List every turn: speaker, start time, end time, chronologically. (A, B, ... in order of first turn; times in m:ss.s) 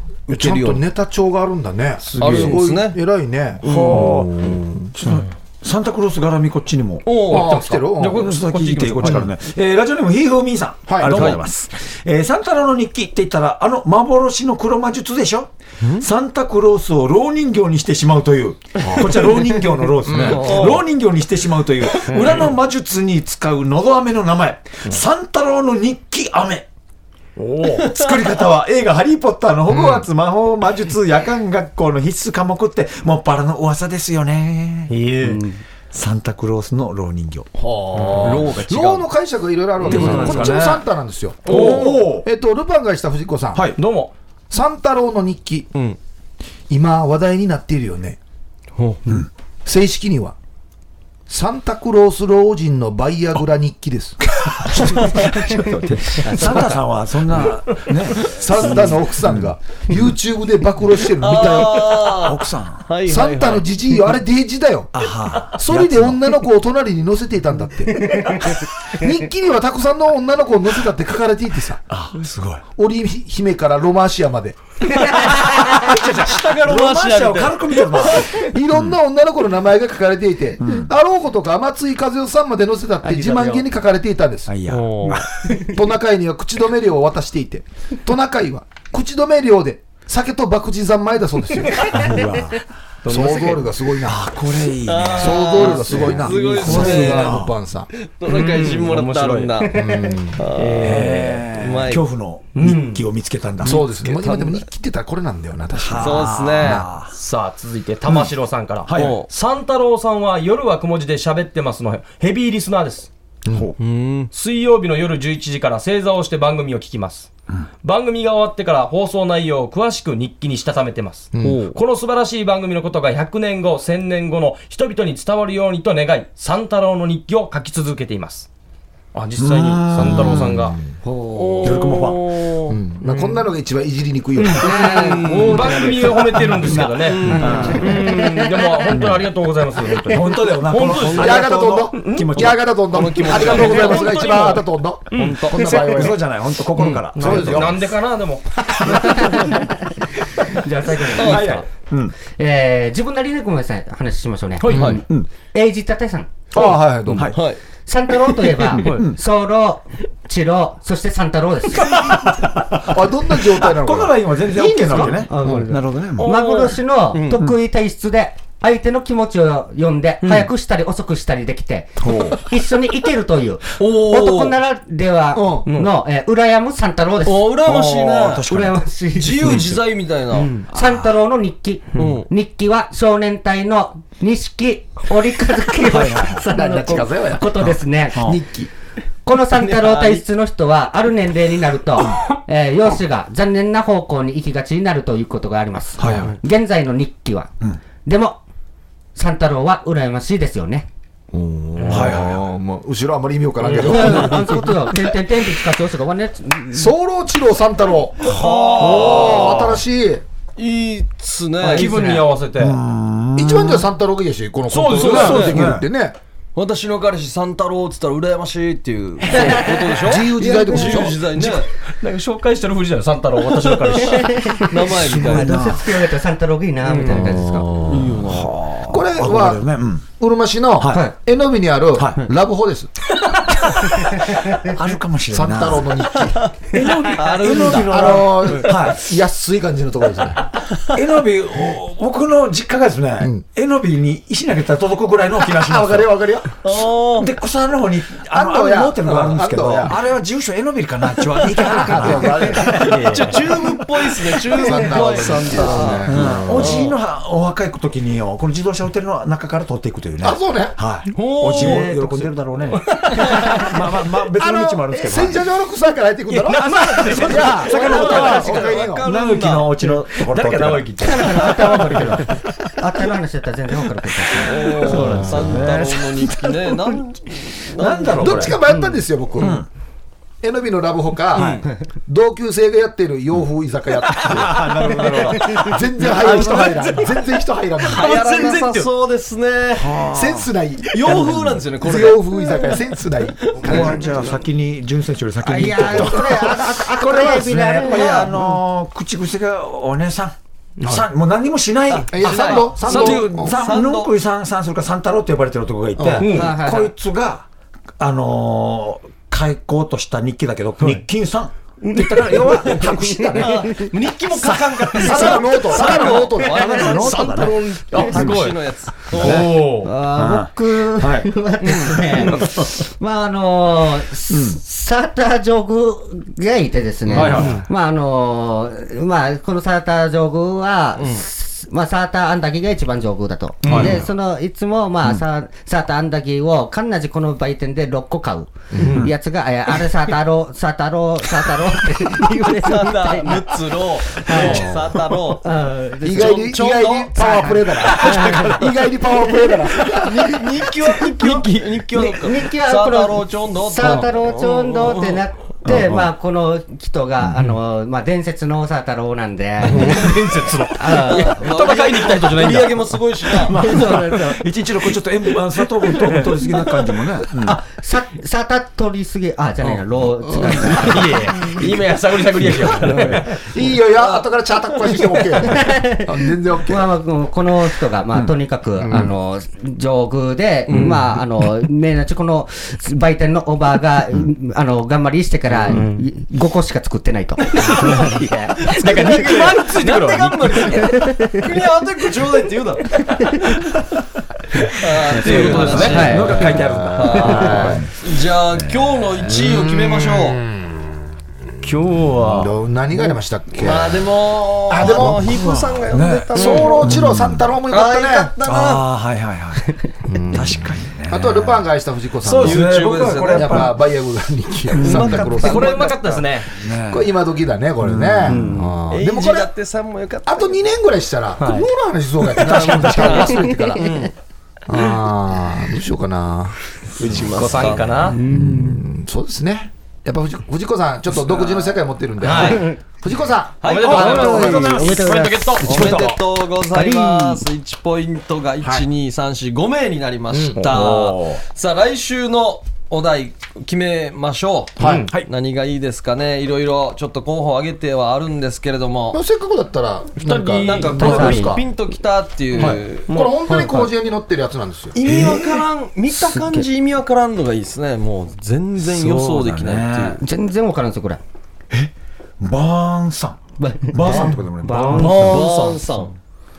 0:00.3-0:00.8 A
0:00.3-0:04.9 B
0:02.2-0:02.5 C
0:02.2-0:03.0 A
0:03.6-0:26.7 D
0:03.6-0:04.2 A
0:07.1-0:07.6 A
0:07.3-0:08.3 B
0:07.4-0:09.2 C
0:10.9-0:11.4 B
0:11.1-0:11.4 A
0:18.8-0:19.1 B
0:20.0-0:20.6 B
0:20.2-0:20.8 A
0:22.1-0:22.4 C
0:27.4-0:27.9 C
0:27.8-0:35.0 D
0:34.9-0:35.4 C
0:35.2-0:35.6 E
0:35.9-0:37.5 D
0:37.6-0:43.7 B
0:38.1-0:39.1 A
0:39.8-0:40.8 D
0:39.9-0:40.5 A
0:41.5-0:42.3 D
0:41.5-0:42.0 C
0:41.5-0:41.8 A
0:43.5-0:43.8 D
0:43.8-0:44.1 C
0:44.5-0:45.7 B
0:46.7-0:48.2 B
0:48.8-0:49.0 A
0:49.6-0:50.4 B
0:51.3-0:55.3 B
0:54.4-0:59.5 D
0:56.2-0:56.8 E
0:58.3-1:02.1 B
1:01.2-1:03.7 A
1:02.2-1:02.9 D
1:03.1-1:04.9 B
1:04.9-1:06.2 D
1:05.5-1:11.8 B
1:08.0-1:08.4 E
1:11.9-1:12.6 D
1:12.8-1:14.6 B
1:15.2-1:18.3 A
1:15.2-1:19.0 D
1:18.3-1:24.5 B
1:20.6-1:20.9 D
1:23.1-1:23.6 E
1:24.5-1:25.6 D
1:24.7-1:25.2 A
1:25.5-1:32.0 B
1:31.9-1:32.7 D
1:33.0-1:33.7 C
1:33.1-1:34.2 B
1:34.0-1:37.5 D
1:34.9-1:42.1 A
1:35.2-1:37.9 B
1:38.3-1:39.6 C
1:39.7-1:40.4 B
1:39.7-1:40.2 E
1:40.5-1:41.5 C
1:40.8-1:44.2 D
1:42.5-1:43.0 C
1:43.6-1:46.9 B
1:43.7-1:44.7 A
1:45.7-1:47.1 D
1:46.0-1:46.8 A
1:47.1-1:53.1 C
1:48.8-1:49.2 D
1:48.9-1:49.3 A
1:53.5-1:53.8 D
1:53.8-1:54.3 A
1:54.3-1:57.3 C
1:57.8-2:08.5 C
2:01.3-2:01.7 B
2:09.1-2:10.8 C
2:09.4-2:10.6 D
2:10.1-2:11.0 B
2:11.0-2:11.9 E
2:11.3-2:12.8 A
2:11.6-2:12.2 D
2:12.7-2:15.1 B
2:13.0-2:13.4 C
2:14.6-2:16.1 E
2:14.6-2:16.2 A
2:15.2-2:22.3 C
2:16.4-2:18.0 D
2:17.0-2:17.8 A
2:17.3-2:18.9 E
2:18.9-2:19.3 D
2:20.0-2:22.7 D
2:21.2-2:26.2 B
2:22.9-2:25.8 A
2:23.6-2:24.0 C
2:25.1-2:25.9 C
2:25.6-2:27.8 D
2:26.8-2:29.5 C
2:27.2-2:27.8 B
2:28.8-2:31.7 E
2:31.1-2:32.2 D
2:31.2-2:31.6 A
2:32.3-2:36.5 E
2:34.6-2:35.0 C
2:34.7-2:35.0 A
2:34.7-2:35.3 D
2:36.5-2:37.3 B
2:36.6-2:37.4 D
2:37.3-2:37.6 A
2:37.9-2:42.1 E
2:38.7-2:39.2 D
2:38.8-2:39.1 C
2:41.8-2:46.3 D
2:42.8-2:44.2 B
2:44.5-2:57.6 E
2:45.4-2:45.7 B
2:46.2-2:47.4 A
2:46.2-2:46.6 C
2:50.2-2:50.5 C
2:52.0-2:52.4 D
2:53.8-2:54.6 A
2:55.3-2:55.7 B
2:55.7-2:55.9 C
2:57.2-2:58.5 A
2:57.6-2:59.8 D
2:58.4-2:59.7 E
2:59.2-3:00.6 A
3:00.7-3:08.4 E
3:00.8-3:01.1 D
3:02.0-3:02.3 A
3:05.9-3:06.4 D
3:06.5-3:07.6 B
3:07.6-3:08.4 D
3:08.2-3:08.7 B
3:09.2-3:17.5 E
3:09.6-3:10.3 A
3:16.0-3:16.4 D
3:18.0-3:18.4 E
3:19.2-3:20.9 E
3:21.3-3:24.7 B
3:21.8-3:22.2 C
3:21.9-3:22.4 D
3:23.6-3:24.0 C
3:23.8-3:26.9 E
3:23.9-3:24.3 D
3:26.7-3:30.2 B
3:28.3-3:29.6 A
3:28.3-3:29.7 D
3:30.6-3:32.0 A
3:31.6-3:32.2 E
3:31.7-3:32.8 C
3:32.6-3:33.9 D
3:33.4-3:36.2 B
3:34.7-3:35.6 C
3:34.9-3:35.7 A
3:35.1-3:35.9 D
3:36.6-3:41.7 A
3:39.3-3:40.9 E
3:40.0-3:41.3 B
3:41.4-3:44.5 C
3:43.6-3:45.6 A
3:44.0-3:47.7 E
3:45.0-3:45.9 D
3:46.8-3:47.3 C
3:47.1-3:48.2 B
3:47.9-3:49.0 A
3:48.3-3:50.1 D
3:48.9-3:52.9 B
3:50.8-3:51.1 D
3:52.0-3:52.2 D
3:54.1-3:56.0 D
3:55.3-3:56.5 B
3:56.3-3:58.7 A
3:56.8-3:59.0 D
3:57.9-4:00.5 B
4:00.9-4:06.2 D
4:05.5-4:06.5 B
4:06.6-4:07.3 A
4:07.2-4:13.7 D
4:08.3-4:10.0 B
4:11.6-4:13.0 B
4:12.6-4:16.9 A
4:14.5-4:16.9 B
4:16.0-4:25.4 D
4:20.2-4:20.8 B
4:21.2-4:22.0 A
4:21.6-4:22.3 C
4:22.9-4:23.4 C
4:23.0-4:23.7 A
4:24.4-4:29.0 B
4:26.3-4:28.4 C
4:26.8-4:31.9 D
4:27.2-4:29.8 A
4:30.2-4:32.2 C
4:31.0-4:35.2 E
4:34.4-4:38.5 A
4:34.8-4:37.0 D
4:34.9-4:35.5 C
4:35.0-4:35.3 B
4:37.8-4:38.6 D
4:38.2-4:39.6 B
4:38.7-4:39.0 E
4:39.4-4:39.7 D
4:40.4-4:48.6 B
4:41.3-4:41.7 A
4:44.1-4:47.1 D
4:46.1-4:46.8 C
4:47.8-4:50.0 A
4:47.9-4:48.9 C
4:49.8-4:50.5 D
4:50.1-4:54.2 B
4:50.9-4:52.8 A
4:53.4-4:54.0 A
4:53.6-5:07.5 D
4:55.4-4:58.4 E
4:55.9-4:56.4 B
4:57.8-4:58.3 A
5:01.9-5:04.1 A
5:02.1-5:03.6 B
5:06.0-5:06.3 B
5:06.2-5:06.9 E
5:06.2-5:06.5 C
5:08.0-5:13.7 D
5:11.8-5:12.8 C
5:12.9-5:13.9 E
5:13.4-5:19.5 A
5:14.4-5:18.5 D
5:15.0-5:17.4 B
5:16.8-5:19.9 C
5:19.2-5:19.6 D
5:19.8-5:44.7 E
5:20.1-5:22.7 D
5:21.6-5:22.4 A
5:24.3-5:24.6 D
5:27.1-5:27.6 D
5:27.1-5:27.7 C
5:31.0-5:31.2 A
5:33.6-5:34.0 C
5:33.6-5:34.1 D
5:38.7-5:39.0 B
5:38.8-5:39.1 D
5:42.5-5:45.5 A
5:44.3-5:44.9 B
5:45.3-5:46.5 E
5:46.0-5:50.4 B
5:46.1-5:48.7 A
5:47.2-5:49.6 E
5:49.9-5:55.2 A
5:51.2-6:01.4 E
5:55.6-5:56.1 D
5:59.7-6:03.0 C
6:01.0-6:03.6 A
6:03.5-6:04.2 C
6:03.5-6:07.6 D
6:03.6-6:04.4 E
6:07.4-6:11.3 E
6:10.4-6:10.8 B
6:10.7-6:13.4 C
6:13.1-6:16.9 B
6:14.0-6:15.0 A
6:15.5-6:29.2 E
6:18.8-6:19.1 B
6:20.7-6:21.0 A
6:20.7-6:21.0 C
6:25.7-6:26.0 C
6:27.6-6:28.0 A
6:28.6-6:33.2 A
6:28.7-6:31.0 C
6:30.8-6:31.4 E
6:34.7-6:40.4 A
6:35.2-6:36.3 C
6:35.2-6:37.9 D
6:35.4-6:36.7 E
6:36.3-6:37.9 B
6:37.2-6:37.6 E
6:38.5-6:39.4 D
6:39.3-6:40.9 B
6:41.6-6:42.5 C
6:42.2-6:44.1 B
6:43.6-6:47.0 A
6:44.7-6:45.2 B
6:44.8-6:47.5 D
6:46.3-6:48.3 B
6:47.7-6:48.8 A
6:48.4-6:49.8 D
6:50.1-6:50.6 B
6:50.3-6:51.6 D
6:51.1-6:55.9 B
6:52.2-6:53.7 A
6:52.3-6:53.8 D
6:54.7-6:55.4 D
6:54.8-6:56.2 A
6:55.4-6:56.5 C
6:56.5-6:57.1 D
6:56.9-6:59.5 B
6:57.8-6:58.4 D
6:58.3-6:58.6 C
6:58.3-6:58.7 E
6:58.9-7:00.6 A
7:00.3-7:03.9 B
7:01.4-7:01.7 C
7:02.4-7:04.1 A
7:04.7-7:06.6 B
7:07.0-7:08.1 A
7:07.3-7:08.2 C
7:08.1-7:08.8 E
7:08.2-7:14.8 B
7:11.3-7:12.7 A
7:12.2-7:12.7 C
7:12.4-7:12.8 E
7:13.6-7:15.0 A
7:13.6-7:16.0 C
7:13.8-7:15.8 E
7:15.6-7:29.2 A
7:15.6-7:16.2 B
7:15.7-7:16.2 D
7:16.8-7:17.4 B
7:20.6-7:21.4 D
7:24.8-7:25.1 B
7:24.8-7:25.1 C
7:29.1-7:31.6 B
7:30.2-7:31.2 C
7:30.6-7:33.1 A
7:30.9-7:31.6 E
7:32.6-7:35.0 B
7:33.1-7:33.4 C
7:33.5-7:33.9 E
7:34.9-7:40.2 A
7:35.0-7:35.7 D
7:36.1-7:36.7 E
7:38.8-7:40.2 D
7:40.2-7:41.2 E
7:41.7-7:45.5 D
7:43.6-7:45.8 E
7:44.9-7:46.2 A